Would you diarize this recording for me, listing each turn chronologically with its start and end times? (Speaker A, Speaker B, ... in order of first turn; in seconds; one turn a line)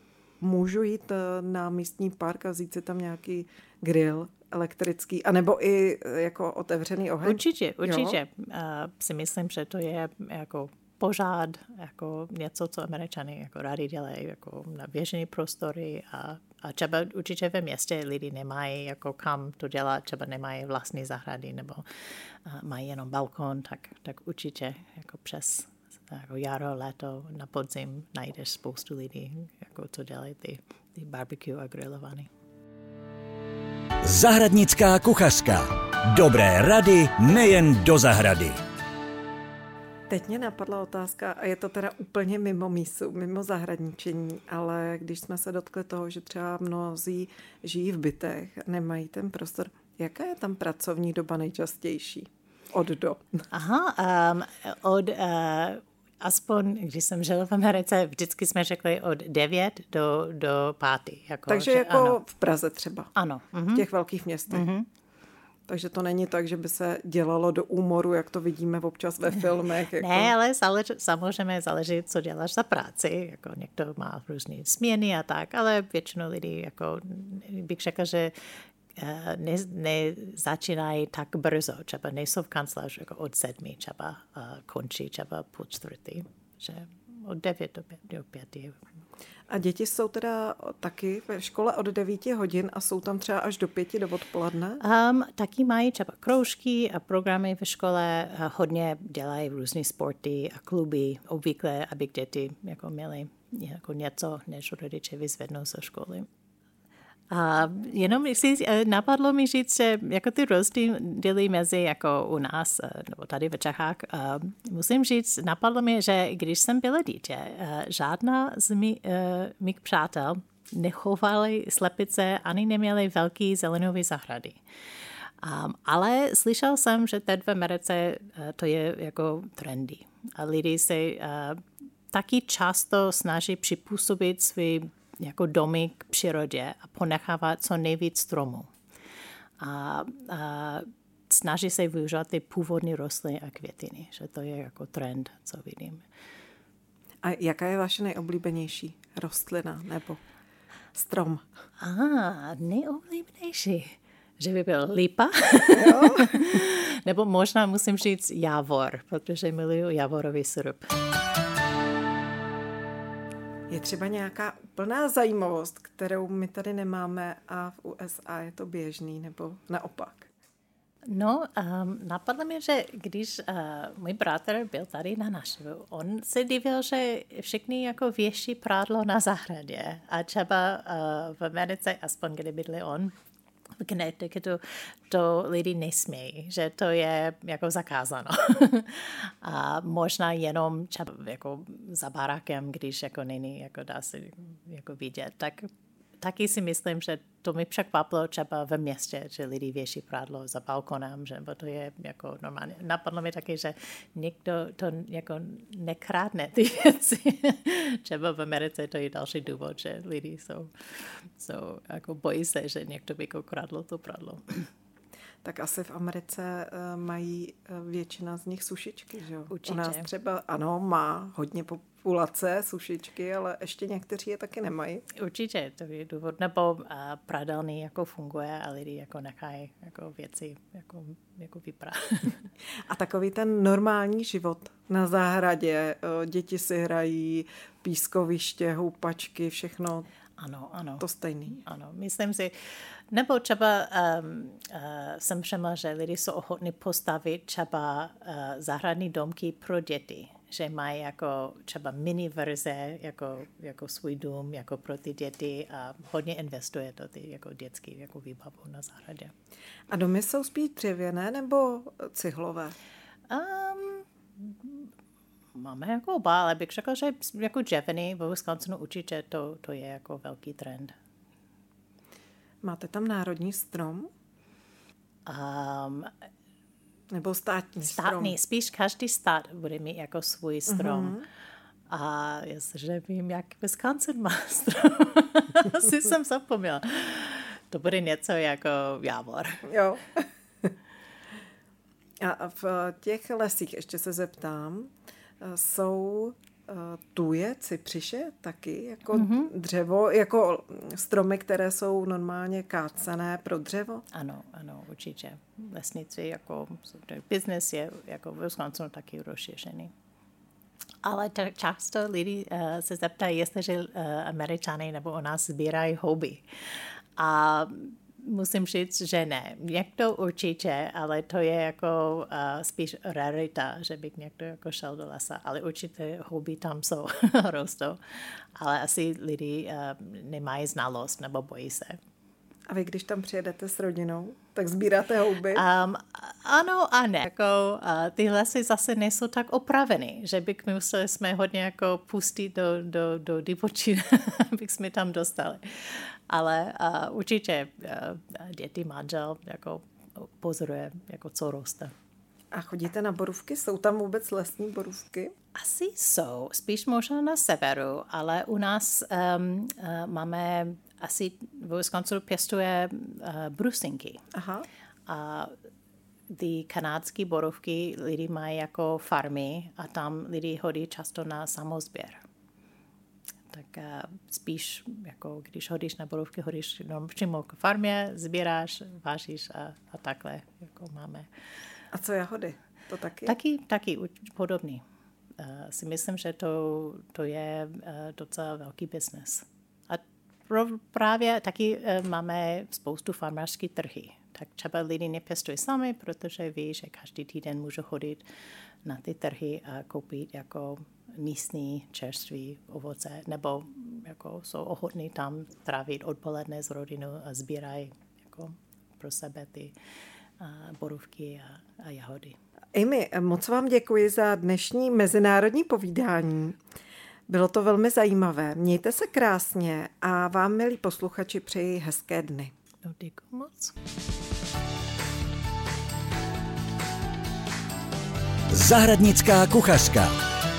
Speaker A: 0.4-8.2
Speaker B: 7.2-21.8
Speaker B: 22.4-32.3
Speaker C: 34.0-38.6
Speaker A: 40.1-53.4
Speaker B: 53.5-62.2
Speaker A: 61.5-63.1
Speaker B: 63.1-63.9
Speaker A: 63.7-64.7
Speaker B: 64.5-64.9
Speaker A: 65.7-70.3
Speaker B: 69.4-78.3
Speaker B: 79.0-88.8
Speaker A: 89.5-94.8
Speaker B: 94.8-106.3
Speaker B: 107.3-124.6
Speaker B: 125.4-138.7
Speaker B: 139.6-146.0
Speaker A: 147.2-150.2
Speaker A: 150.9-151.5
Speaker B: 151.8-160.8
Speaker A: 155.7-156.4
Speaker A: 163.7-170.3
Speaker B: 171.1-183.1
Speaker B: 183.8-195.7
Speaker B: 196.2-214.7
Speaker A: 215.4-225.0
Speaker B: 219.5-220.1
Speaker B: 225.1-232.5
Speaker A: 232.9-240.1
Speaker B: 240.4-241.0
Speaker A: 241.0-241.6
Speaker B: 241.6-242.5
Speaker B: 243.1-259.3
Speaker A: 259.9-262.7
Speaker B: 263.3-264.9
Speaker B: 265.5-270.9
Speaker A: 272.6-274.1
Speaker B: 275.2-276.1
Speaker A: 277.1-278.4
Speaker B: 277.9-281.2
Speaker A: 280.7-281.2
Speaker B: 281.9-289.7
Speaker A: 289.6-290.7
Speaker A: 292.2-304.0
Speaker B: 299.1-299.5
Speaker B: 304.1-309.9
Speaker B: 311.0-316.4
Speaker B: 317.2-332.0
Speaker A: 332.7-335.6
Speaker B: 335.5-351.9
Speaker A: 352.5-355.3
Speaker B: 355.6-364.2
Speaker A: 364.3-364.7
Speaker B: 365.1-365.5
Speaker B: 366.3-372.2
Speaker B: 373.5-381.3
Speaker A: 381.9-383.3
Speaker B: 383.2-384.8
Speaker B: 385.4-398.2
Speaker B: 398.8-409.7
Speaker B: 410.4-412.4
Speaker A: 412.7-416.6
Speaker A: 417.3-422.5
Speaker B: 422.8-423.7
Speaker C: 428.5-430.1